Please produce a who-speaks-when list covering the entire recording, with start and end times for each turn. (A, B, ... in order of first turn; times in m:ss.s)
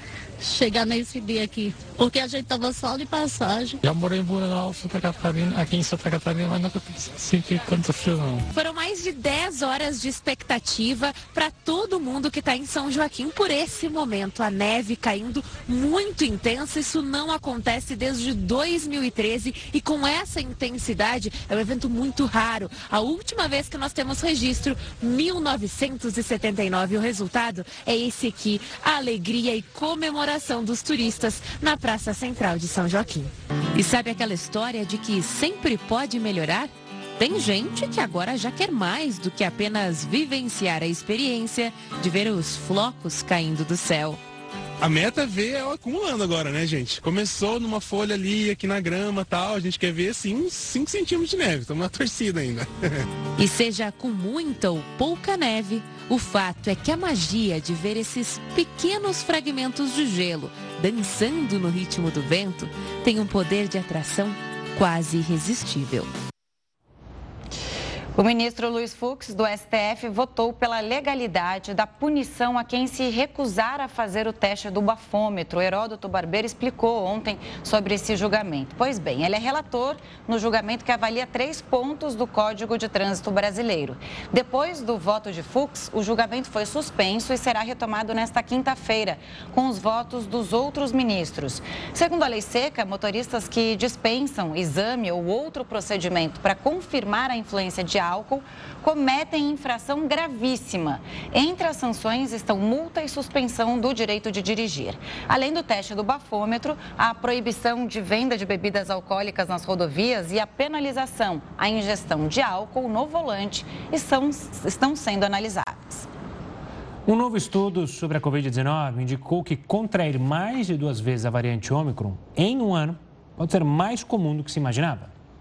0:00.4-0:03.8 A
0:03.8-0:08.5 B
0:08.5-0:44.2 C
0:44.8-0:52.7 D
0:53.4-1:06.1 C
1:08.2-1:56.1 E
1:57.1-2:05.1 F